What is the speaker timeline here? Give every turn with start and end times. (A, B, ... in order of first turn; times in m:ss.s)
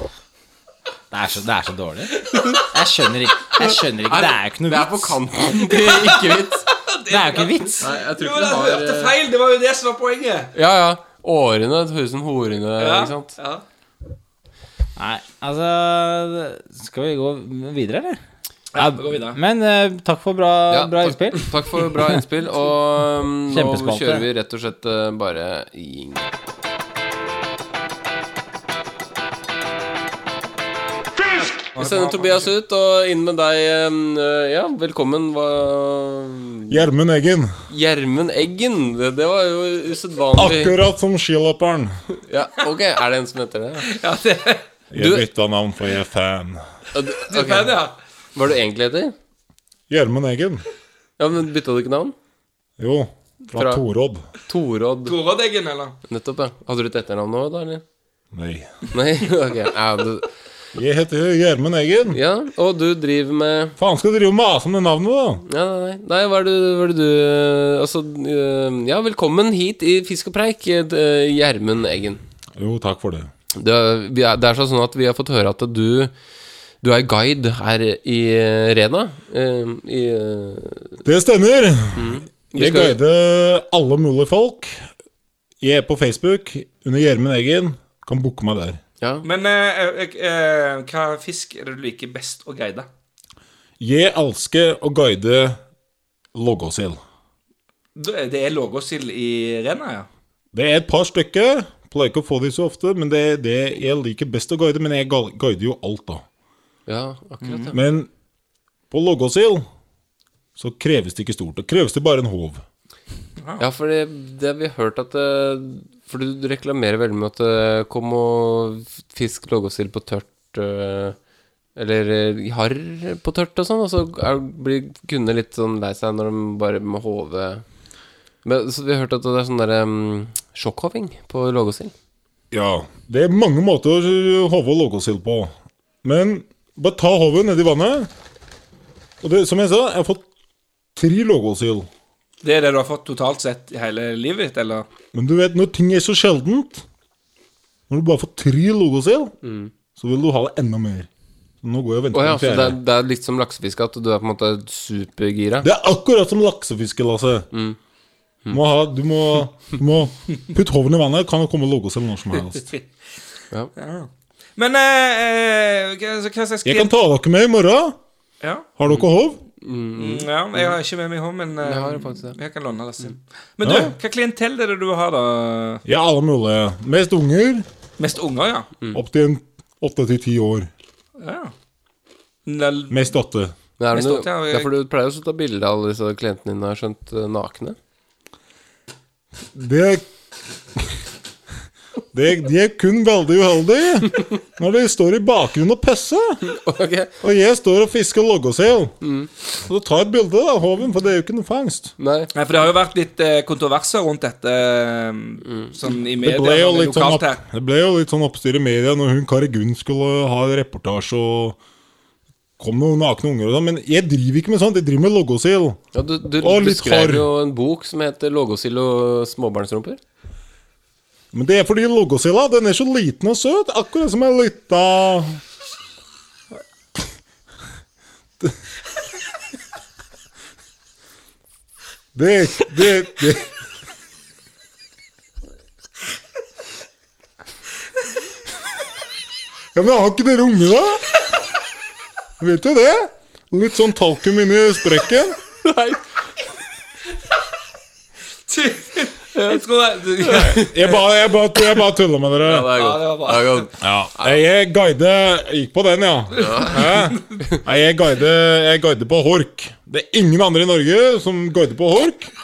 0:01.1-0:05.2 A
0:03.6-0:06.7 B
0:05.9-0:10.5 C
0:07.1-0:07.8 A
0:07.8-0:09.2 B
0:10.5-0:13.4 B
0:12.8-0:13.6 C
0:15.0-0:18.2 A
0:18.7-0:19.4 C
0:18.8-0:22.2 A
0:20.7-0:26.3 B
0:23.5-0:24.2 A
0:31.8-0:32.5 C
0:31.8-0:36.8 B
0:36.7-0:37.6 D
0:37.7-0:40.7 B
0:40.4-0:42.0 D
0:42.1-0:43.9 B
0:43.9-0:44.7 C
0:44.9-0:46.6 D
0:45.0-0:45.2 B
0:46.9-0:47.8 B
0:47.3-0:48.0 C
0:48.4-0:49.2 B
0:49.9-0:50.6 D
0:51.2-0:52.2 B
0:52.8-0:54.3 D
0:53.5-0:53.8 B
0:54.4-0:55.2 B
0:55.1-0:56.0 C
0:56.1-0:57.8 B
0:58.3-0:58.8 D
0:58.9-1:00.3 B
1:00.8-1:02.2 D
1:02.1-1:03.8 B
1:03.8-1:05.4 D
1:05.5-1:12.2 B
1:12.6-1:13.3 D
1:13.5-1:16.1 B
1:16.8-1:21.0 B
1:21.0-1:24.8 D
1:22.0-1:23.0 B
1:25.6-1:28.8 D
1:29.0-1:29.3 B
1:29.2-1:32.9 C
1:33.8-1:35.6 D
1:36.3-1:37.0 D
1:38.0-1:40.1 C
1:40.5-1:46.2 D
1:46.9-1:47.8 B
1:47.4-1:47.7 C
1:47.7-1:48.1 D
1:48.9-1:49.7 D
1:50.6-1:52.6 D
1:53.6-2:01.2 B
2:01.8-2:07.6 B
2:08.4-2:11.9 B
2:12.5-2:15.5 D
2:16.0-2:18.1 D
2:19.2-2:20.2 D
2:21.0-2:21.9 D
2:22.4-2:24.9 C
2:25.1-2:26.8 D
2:27.9-2:29.3 D
2:29.4-2:29.7 B
2:30.0-2:31.1 D
2:31.6-2:32.8 D
2:32.1-2:35.7 B
2:35.6-2:37.5 D
2:37.5-2:37.8 B
2:38.5-2:42.7 D
2:43.8-2:46.9 C
2:46.6-2:48.0 D
2:48.4-2:48.7 C
2:48.8-2:49.4 D
2:49.6-2:50.8 B
2:50.0-2:55.8 C
2:51.6-2:52.4 B
2:53.6-2:53.9 D
2:55.8-2:57.7 D
2:58.0-2:58.7 C
2:58.9-3:00.7 D
3:01.2-3:01.5 C
3:02.5-3:03.1 C
3:02.9-3:03.5 D
3:03.8-3:07.8 B
3:03.9-3:04.7 C
3:09.5-3:10.0 D
3:12.1-3:16.4 D
3:16.4-3:17.1 B
3:17.2-3:19.0 D
3:19.0-3:19.3 B
3:19.5-3:21.9 D
3:22.0-3:22.3 B
3:22.3-3:27.4 C
3:25.4-3:25.7 B
3:26.2-3:31.6 D
3:32.6-3:35.8 D
3:35.9-3:40.0 B
3:36.4-3:37.3 D
3:41.3-3:45.4 D
3:52.2-3:53.5 D
3:59.8-4:01.0 D
4:02.4-4:05.4 D
4:05.6-4:06.0 B
4:08.5-4:11.0 C
4:09.4-4:09.6 B
4:10.2-4:10.7 B
4:10.6-4:12.7 D
4:12.4-4:14.4 B
4:12.7-4:13.7 C
4:13.8-4:22.3 D
4:16.4-4:16.9 B